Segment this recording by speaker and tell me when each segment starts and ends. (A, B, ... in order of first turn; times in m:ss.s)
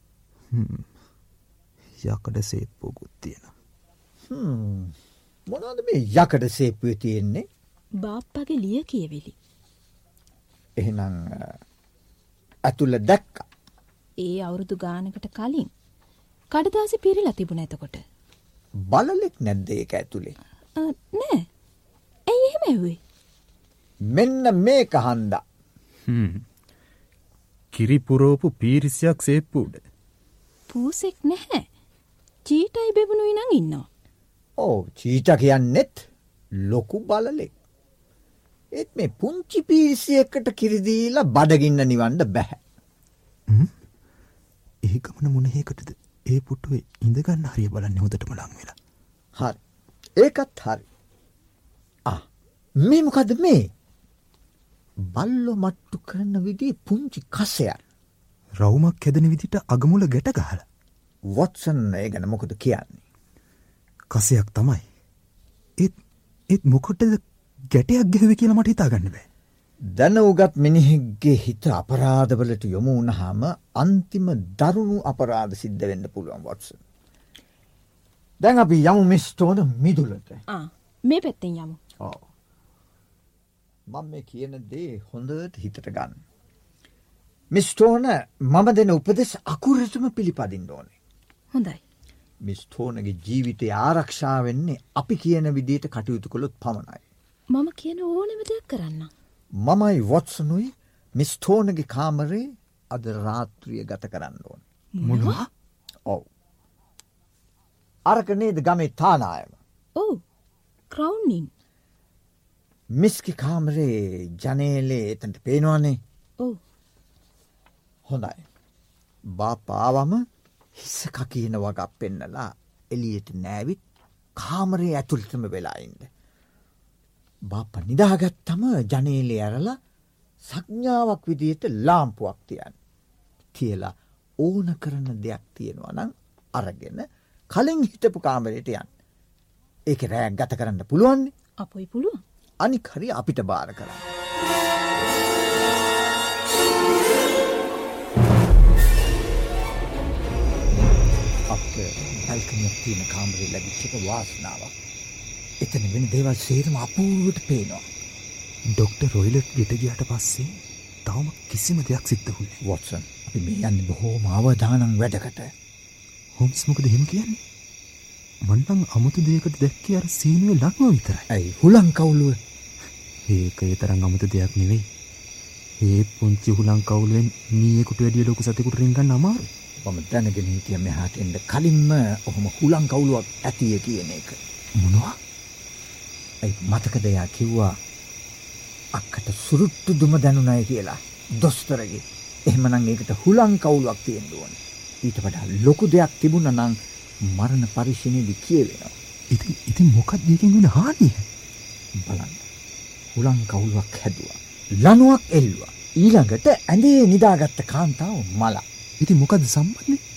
0:00.5-0:00.8 A
0:02.0-0:03.5 A
0:04.3-0:04.9 B
0:05.5-0:07.5 B
0:08.0-0:09.3 C
0:10.8-0:11.6 B
0:12.7-0:13.5 B
0:14.2-0:15.7 C
0:16.5-0:18.0 C
0:18.9-0:20.3 B
0:20.8-0:21.4 C
0:22.3-0:23.0 C
0:24.1-0:25.4 B
0:26.1-0:26.4 A
0:27.7-0:29.8 A
0:30.7-0:31.6 C
0:32.4-0:33.9 C
0:34.6-0:36.0 B
0:36.6-0:37.5 B
0:38.8-0:42.6 B
0:44.9-0:48.7 A
0:50.2-0:50.8 B
0:52.8-0:53.7 B
0:55.1-0:57.8 B
0:58.6-1:00.6 A
1:01.3-1:03.0 B
1:04.1-1:04.8 A
1:06.5-1:07.2 A
1:07.7-1:09.2 A
1:09.9-1:16.8 B
1:18.4-1:20.4 B
1:20.5-1:21.8 C
1:22.0-1:22.3 B
1:23.9-1:26.2 B
1:27.5-1:30.9 B
1:31.5-1:31.8 C
1:32.4-1:37.0 B
1:37.5-1:39.1 C
1:39.6-1:44.6 B
1:45.0-1:45.4 C
1:45.1-1:45.5 A
1:48.1-1:49.6 B
1:50.9-1:51.5 C
1:53.0-1:56.0 B
1:58.1-1:58.4 B
1:59.3-2:00.2 B
2:00.7-2:03.8 B
2:04.4-2:06.1 B
2:07.5-2:09.8 B
2:10.4-2:12.7 B
2:13.5-2:18.9 B
2:19.9-2:21.3 B
2:21.6-2:22.2 C
2:22.6-2:24.0 B
2:31.5-2:34.7 B
2:35.6-2:37.8 B
2:38.8-2:40.5 A
2:41.1-2:42.6 A
2:42.6-2:45.5 B
2:46.4-2:47.4 A
2:48.5-2:51.2 A
2:51.3-2:52.4 B
2:53.3-2:54.9 A
2:55.8-2:59.5 A
2:59.8-3:04.4 B
3:04.8-3:05.2 A
3:06.4-3:07.8 B
3:08.9-3:16.8 B
3:17.3-3:18.9 B
3:19.3-3:21.2 A
3:22.0-3:22.4 B
3:23.1-3:28.6 B
3:29.0-3:30.0 A